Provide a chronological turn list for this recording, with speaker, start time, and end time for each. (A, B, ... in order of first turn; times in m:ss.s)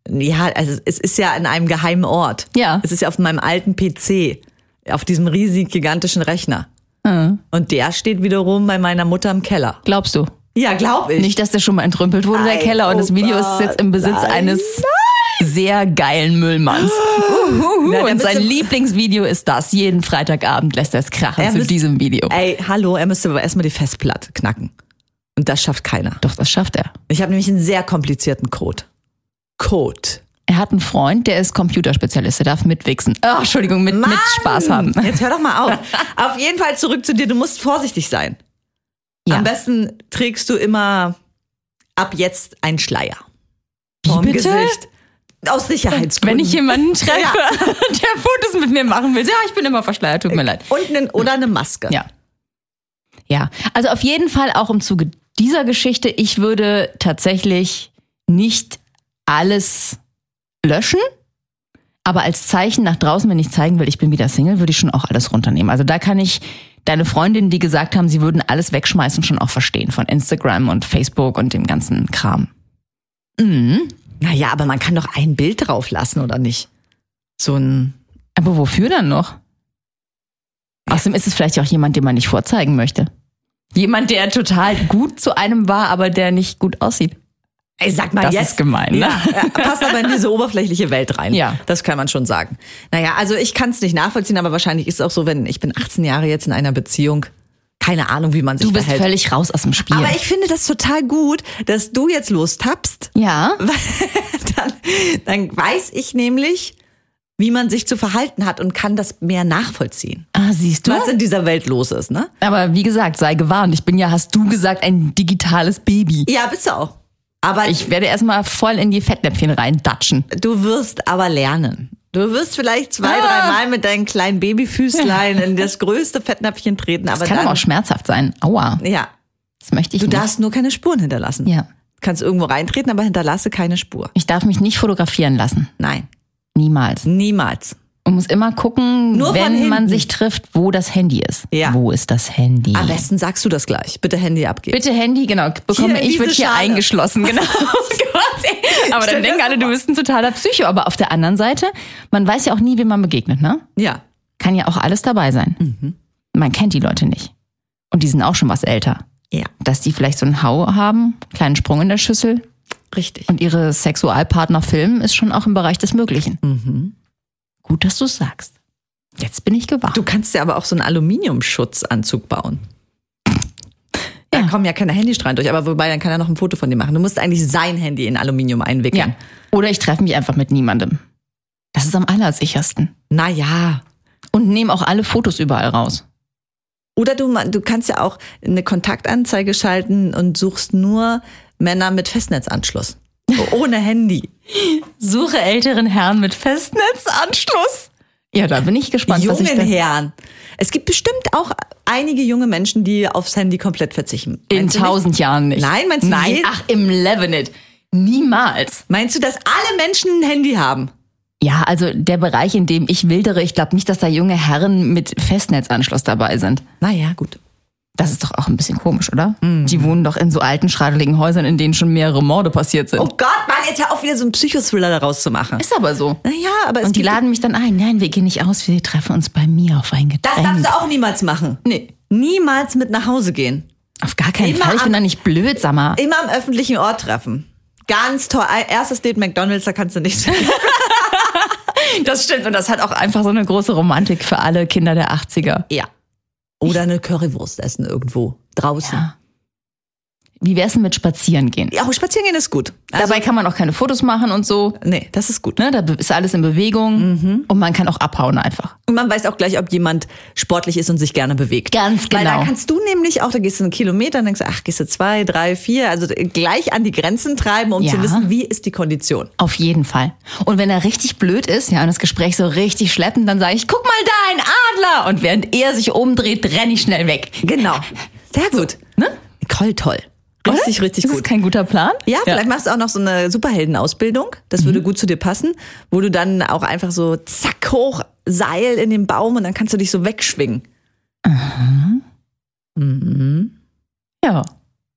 0:00.1-0:06.7 A
0:02.5-0:02.8 B
0:07.0-0:07.4 B
0:07.5-0:09.8 A
0:09.8-0:10.3 B
0:10.6-0:11.4 A
0:11.2-0:14.9 B
0:12.3-0:15.5 A
0:15.4-0:22.4 B
0:16.7-0:18.8 A
0:21.4-0:24.7 A
0:25.4-0:26.2 A
0:26.2-0:26.9 B
0:27.1-0:28.9 A
0:29.6-0:30.2 A
0:30.5-0:35.2 B
0:33.9-0:38.4 A
0:39.3-0:41.2 A
0:42.0-0:43.2 A
0:44.0-0:44.8 B
0:44.1-0:44.9 A
0:45.4-0:47.8 A
0:45.9-0:50.7 B
0:50.3-0:52.0 A
0:53.3-1:00.0 B
1:00.6-1:01.0 B
1:02.0-1:12.5 B
1:13.4-1:14.0 B
1:14.2-1:16.7 A
1:17.4-1:18.0 A
1:18.4-1:19.3 B
1:20.9-1:23.1 B
1:23.7-1:27.2 B
1:27.8-1:37.3 A
1:28.2-1:30.0 B
1:31.3-1:31.6 B
1:37.8-1:39.1 A
1:38.6-1:40.2 B
1:39.9-1:46.8 A
1:43.2-1:43.6 B
1:47.4-1:50.3 A
1:50.4-1:51.1 B
1:50.8-1:52.3 A
1:52.4-1:56.3 B
1:56.3-1:57.9 A
1:57.6-2:00.3 B
2:00.3-2:07.6 A
2:03.0-2:03.6 B
2:07.1-2:08.8 B
2:08.8-2:09.1 A
2:09.6-2:10.3 B
2:10.0-2:14.1 A
2:14.2-2:15.7 B
2:15.8-2:16.1 A
2:16.6-2:17.1 B
2:17.0-2:17.8 A
2:18.0-2:23.1 B
2:19.1-2:20.1 A
2:21.5-2:21.8 A
2:22.7-2:24.8 A
2:24.7-2:33.6 B
2:25.7-2:27.8 A
2:28.8-2:29.8 A
2:33.8-2:34.0 A
2:34.4-2:35.6 B
2:35.6-2:36.0 A
2:36.3-2:37.3 B
2:37.9-2:39.0 B
2:39.6-2:42.4 B
2:42.9-2:43.3 A
2:43.3-2:46.4 B
2:46.4-2:46.9 A
2:47.6-2:48.5 B
2:49.2-2:50.0 B
2:49.9-2:52.6 A
2:54.3-2:59.2 A
2:58.9-3:01.0 B
3:01.7-3:02.9 B
3:03.1-3:03.8 A
3:04.3-3:06.0 B
3:07.0-3:14.3 A
3:14.5-3:19.7 B
3:19.1-3:25.0 A
3:24.5-3:28.8 B
3:25.6-3:26.5 A
3:28.9-3:30.9 A
3:31.4-3:36.6 B
3:36.8-3:37.4 A
3:38.0-3:43.1 B
3:39.4-3:40.0 A
3:43.0-3:45.6 A
3:45.6-3:46.2 B
3:46.2-3:47.2 A
3:46.8-3:50.8 B
3:50.2-3:53.7 A
3:51.6-3:51.9 B
3:54.0-3:56.0 B
3:54.4-3:55.0 A
3:56.0-4:01.2 A
4:00.4-4:05.6 B
4:06.6-4:09.1 A
4:08.8-4:09.1 B
4:10.4-4:11.8 B
4:11.7-4:13.3 A
4:13.0-4:14.8 B
4:14.8-4:15.6 A
4:15.6-4:18.8 B
4:17.0-4:17.5 A
4:18.9-4:29.3 A
4:21.7-4:22.5 B
4:27.8-4:28.3 B
4:29.4-4:37.7 B
4:37.4-4:38.8 A
4:39.4-4:41.3 A
4:40.5-4:42.4 B
4:42.1-4:50.6 A
4:51.2-4:52.0 B
4:52.8-4:53.5 A